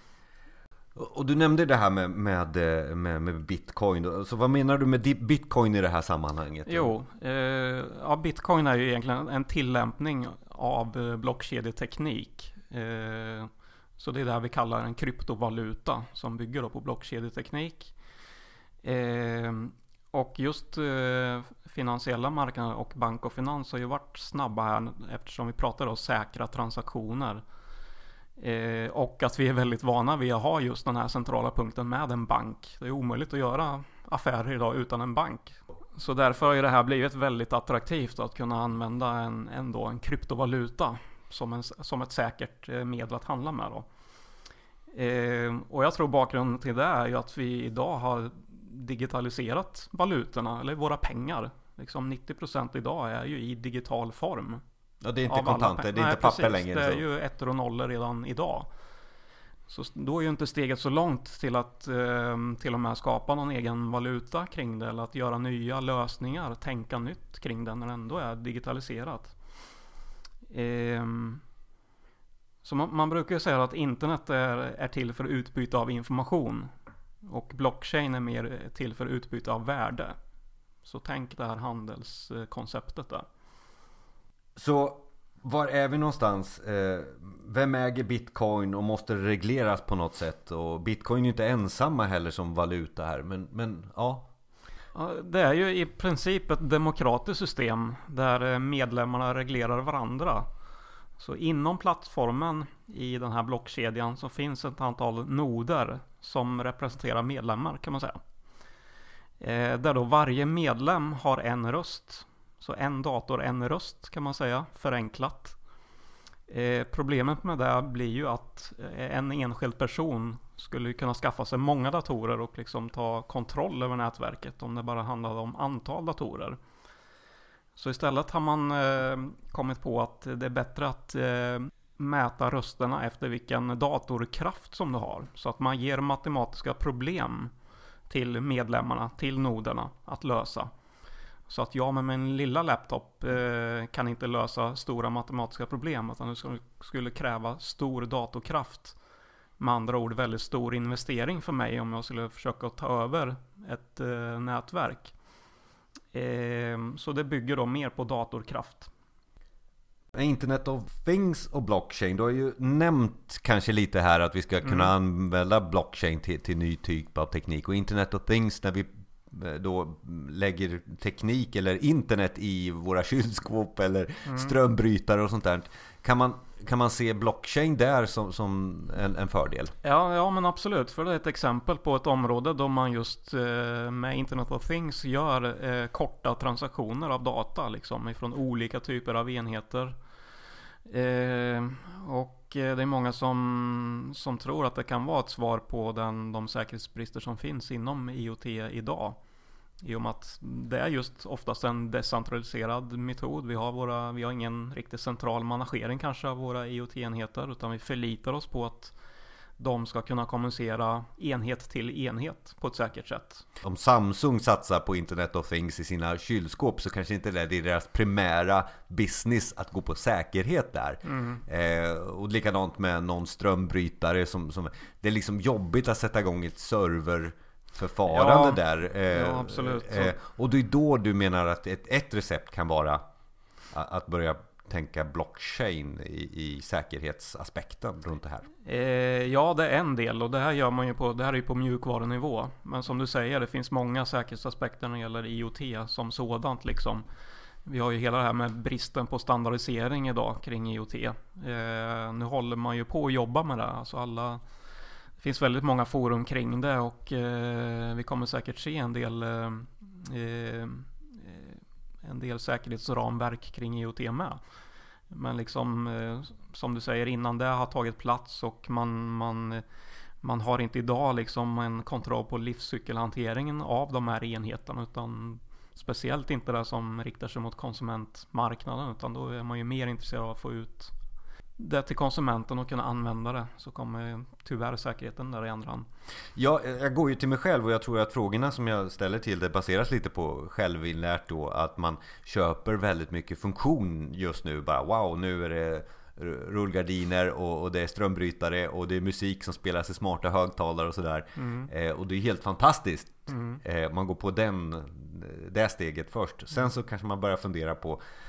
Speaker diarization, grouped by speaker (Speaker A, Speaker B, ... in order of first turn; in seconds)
Speaker A: 0.9-6.9, 55.0-57.0, 84.6-94.3, 160.1-179.7, 213.6-233.0, 233.7-238.5, 286.4-308.0
Speaker B: 6.7-17.9, 18.8-27.4, 28.4-43.9, 44.9-54.6, 55.3-58.7, 59.7-69.3, 70.5-71.4, 72.6-76.7, 77.2-80.2, 80.8-83.2, 95.0-100.5, 101.2-108.2, 109.4-115.6, 116.5-126.6, 127.8-137.5, 138.1-140.7, 141.5-149.0, 149.6-155.1, 156.1-158.9, 174.3-174.5, 179.8-190.0, 190.8-199.2, 199.8-209.0, 209.6-213.4, 221.0-221.4, 228.1-230.2, 238.7-247.0, 247.7-254.4, 255.2-264.4, 265.1-269.6, 270.2-280.9, 281.6-285.9, 301.4-301.7, 303.3-303.6